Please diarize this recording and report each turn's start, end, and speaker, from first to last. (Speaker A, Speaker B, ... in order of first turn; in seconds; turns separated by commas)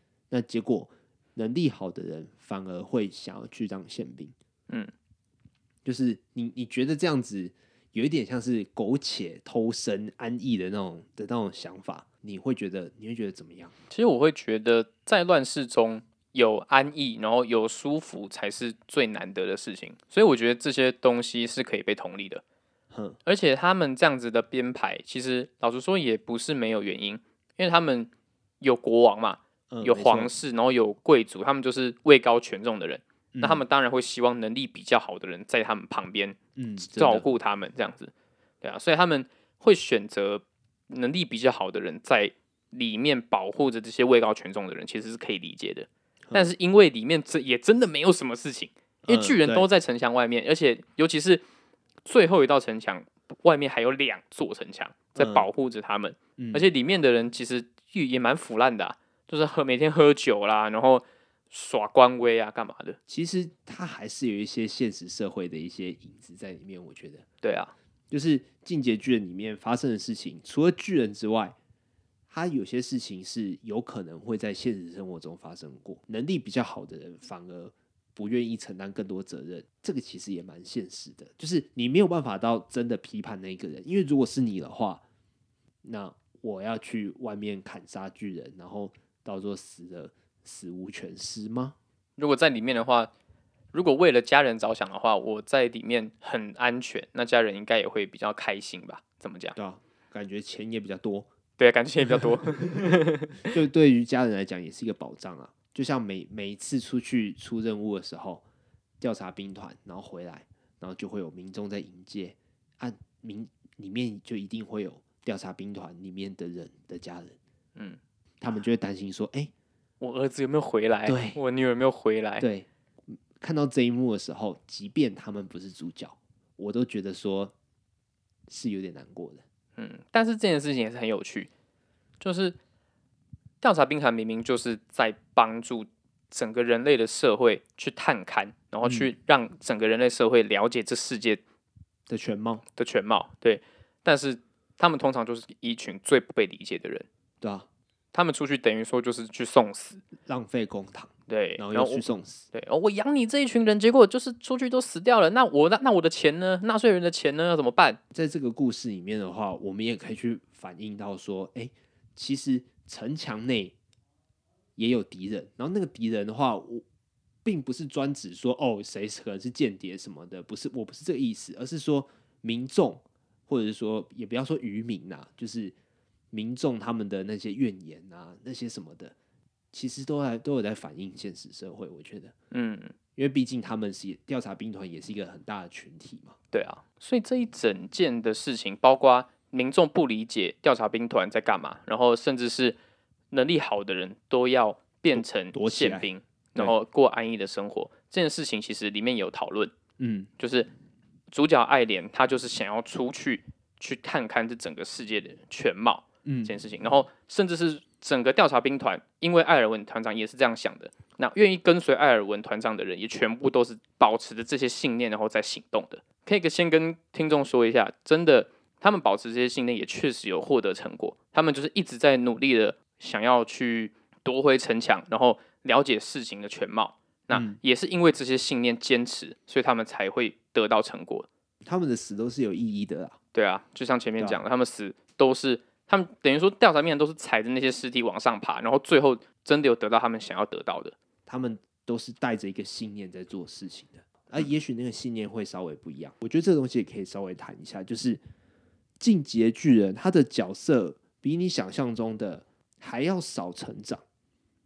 Speaker A: 0.3-4.3, Speaker A: 5.8-13.7, Speaker B: 13.9-22.4, Speaker A: 22.9-23.2, Speaker B: 23.2-28.1, Speaker B: 28.6-38.1, Speaker A: 29.7-30.3, Speaker A: 33.3-33.6, Speaker A: 36.5-37.2, Speaker B: 38.6-51.4, Speaker A: 46.3-46.5, Speaker A: 49.0-49.7, Speaker B: 52.0-63.0, Speaker A: 55.2-55.5, Speaker A: 56.4-56.7, Speaker A: 63.1-67.2, Speaker B: 67.4-67.7, Speaker A: 68.1-71.5, Speaker A: 72.3-85.0, Speaker A: 85.8-91.7, Speaker B: 92.2-93.1, Speaker B: 93.7-99.5, Speaker A: 99.5-101.3, Speaker B: 101.6-103.5, Speaker A: 102.1-103.0, Speaker A: 103.5-108.4, Speaker A: 109.0-117.3, Speaker A: 118.4-119.5, Speaker B: 120.0-122.5, Speaker A: 121.0-121.4, Speaker A: 122.4-127.5, Speaker A: 128.5-129.4, Speaker B: 129.8-131.5, Speaker B: 132.2-132.6, Speaker B: 133.6-141.4, Speaker A: 138.8-139.1, Speaker A: 142.1-142.6, Speaker B: 142.8-147.1, Speaker A: 147.4-147.7, Speaker B: 148.1-150.0, Speaker A: 150.2-152.5, Speaker B: 151.3-158.0, Speaker A: 158.1-163.7, Speaker A: 164.8-166.8, Speaker A: 167.4-175.7, Speaker A: 176.3-179.1, Speaker A: 179.7-182.3, Speaker B: 182.5-182.9, Speaker A: 183.2-186.3, Speaker B: 186.5-192.8, Speaker B: 193.3-199.7, Speaker A: 195.1-196.7, Speaker A: 200.0-200.3, Speaker B: 200.4-200.7, Speaker B: 201.3-231.3, Speaker A: 206.2-206.6, Speaker A: 227.3-227.6, Speaker A: 231.6-233.2, Speaker B: 233.3-240.9, Speaker A: 241.2-248.2, Speaker A: 249.0-254.0